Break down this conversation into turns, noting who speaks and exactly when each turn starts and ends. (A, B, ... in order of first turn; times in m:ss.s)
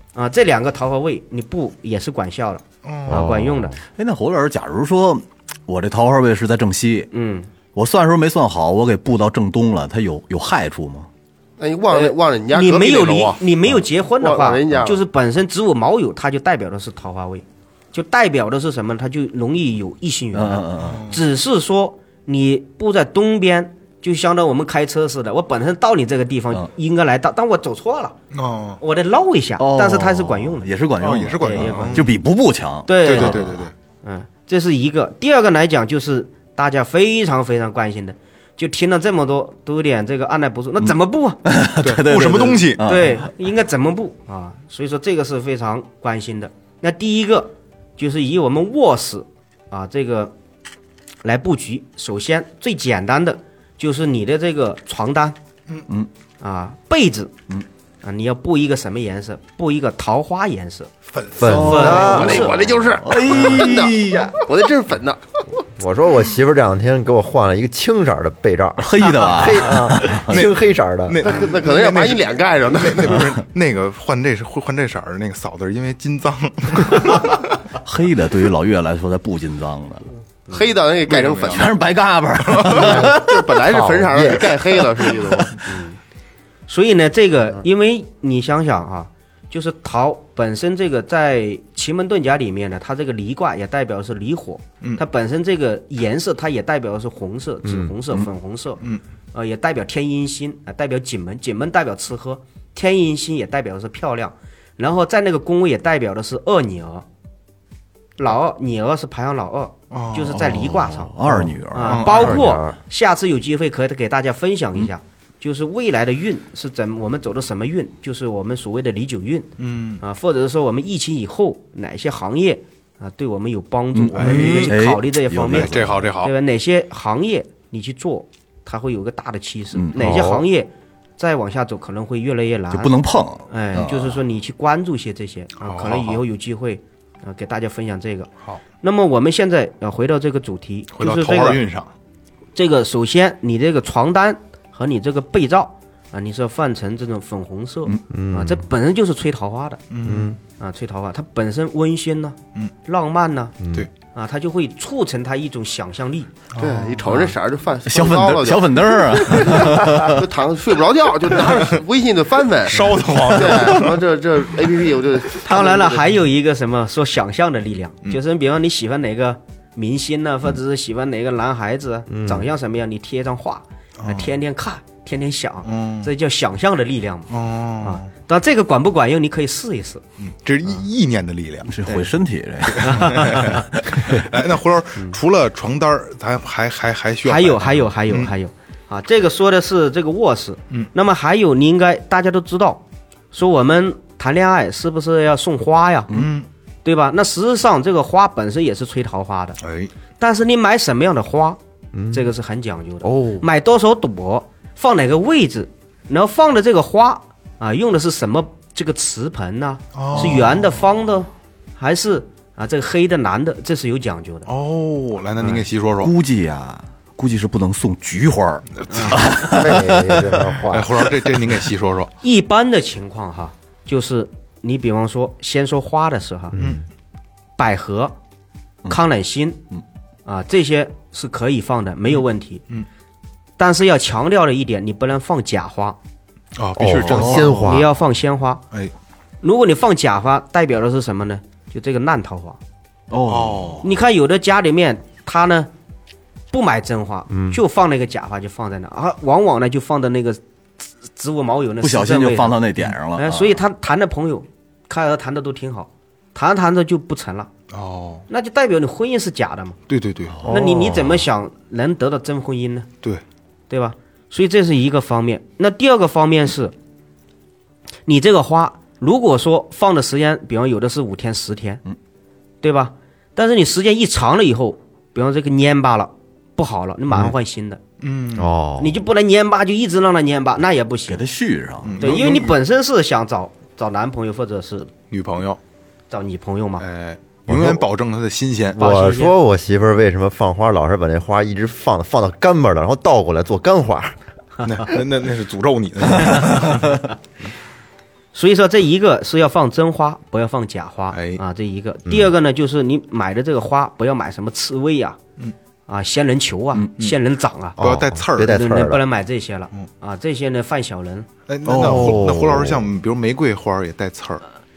0:00.2-0:03.8 A
0:02.8-0:03.3 B
0:03.1-0:03.8 C
0:04.0-0:07.1 D
0:07.1-0:07.5 A
0:07.7-0:11.1 D
0:11.6-0:13.4 E
0:11.9-0:28.2 A
0:14.2-0:15.0 E
0:20.3-0:21.0 D
0:20.8-0:21.2 B
0:28.3-0:28.8 B
0:28.8-0:30.7 A
0:29.6-0:33.7 D
0:31.0-0:32.1 B
0:31.4-0:32.0 A
0:32.9-0:41.4 A
0:33.0-0:33.7 B
0:41.4-0:43.3 D
0:41.8-0:42.8 B
0:42.8-0:50.3 A
0:51.2-0:55.4 A
0:56.4-0:57.3 A
0:58.0-1:00.9 A
1:01.1-1:02.0 B
1:01.4-1:02.4 C
1:01.4-1:04.4 D
1:01.5-1:02.6 A
1:02.0-1:05.2 E
1:05.8-1:11.3 C
1:08.8-1:10.4 D
1:10.3-1:17.5 B
1:11.2-1:13.3 E
1:17.8-1:20.1 D
1:20.5-1:21.7 E
1:21.1-1:21.7 B
1:21.4-1:23.5 D
1:22.5-1:22.8 B
1:22.7-1:25.8 E
1:23.7-1:24.6 C
1:25.7-1:26.0 A
1:26.7-1:38.8 A
1:39.3-1:47.0 A
1:48.2-1:51.2 A
1:49.9-1:50.4 B
1:50.3-1:52.1 D
1:51.7-2:13.0 A
1:51.8-1:52.4 B
1:52.0-1:52.8 C
1:59.6-2:00.0 B
2:03.9-2:06.1 D
2:04.2-2:04.7 B
2:04.3-2:04.6 C
2:05.5-2:06.3 B
2:09.7-2:10.2 D
2:10.0-2:10.4 C
2:12.7-2:14.2 D
2:13.5-2:21.6 A
2:15.6-2:16.2 B
2:20.9-2:21.9 B
2:22.6-2:29.8 A
2:28.1-2:28.6 C
2:29.9-2:30.4 B
2:30.0-2:30.4 C
2:30.4-2:33.6 A
2:33.6-2:33.9 C
2:34.1-2:36.3 A
2:36.6-2:37.0 B
2:36.6-2:46.1 E
2:37.9-2:40.2 D
2:42.6-2:44.0 B
2:45.4-3:00.0 A
2:52.1-2:52.5 C
2:54.0-2:54.3 B
2:55.6-2:56.1 B
2:57.3-2:58.1 B
3:00.2-3:01.8 B
3:01.6-3:04.0 D
3:02.7-3:08.3 B
3:02.8-3:03.6 A
3:07.2-3:16.1 A
3:16.1-3:16.5 B
3:16.8-3:19.6 A
3:19.6-3:19.9 B
3:20.2-3:21.6 A
3:21.9-3:22.3 C
3:22.1-3:34.5 A
3:23.0-3:23.5 C
3:29.9-3:30.7 B
3:30.2-3:30.5 D
3:34.5-3:36.1 B
3:36.0-3:40.6 D
3:38.9-3:39.2 B
3:39.2-3:41.0 C
3:40.7-3:42.1 B
3:42.2-3:46.6 A
3:46.5-3:46.8 C
3:46.6-3:46.8 B
3:47.6-3:48.2 A
3:48.9-3:49.6 A
3:50.2-3:52.6 A
3:53.6-3:56.0 A
3:56.6-3:57.7 B
3:56.8-3:57.9 C
3:56.9-3:57.8 D
3:57.6-3:58.6 A
3:59.4-4:02.6 A
4:03.1-4:03.9 D
4:03.3-4:03.8 B
4:03.8-4:05.7 A
4:06.5-4:10.4 A
4:07.3-4:07.6 C
4:11.1-4:12.6 A
4:11.8-4:13.6 D
4:13.1-4:17.5 A
4:17.7-4:18.2 B
4:18.3-4:19.8 A
4:19.9-4:20.5 B
4:20.4-4:21.1 C
4:20.5-4:22.9 A
4:23.7-4:26.7 A
4:28.1-4:31.8 A
4:32.6-4:37.8 A
4:38.0-4:38.5 B
4:38.4-4:39.0 C
4:38.8-4:41.2 A
4:41.1-4:42.0 D
4:41.8-4:42.6 B
4:42.0-4:44.9 A
4:45.1-4:45.6 B
4:46.1-4:46.8 A
4:46.8-4:48.8 B
4:47.5-4:47.8 C
4:48.8-4:54.2 C
4:48.8-4:49.4 A
4:54.6-4:57.0 B
4:58.3-5:05.2 A
5:01.1-5:01.4 B
5:05.9-5:07.8 A
5:07.8-5:09.0 C
5:07.8-5:08.6 B
5:08.4-5:11.3 A
5:11.5-5:14.4 B
5:11.6-5:12.3 D
5:11.8-5:12.9 C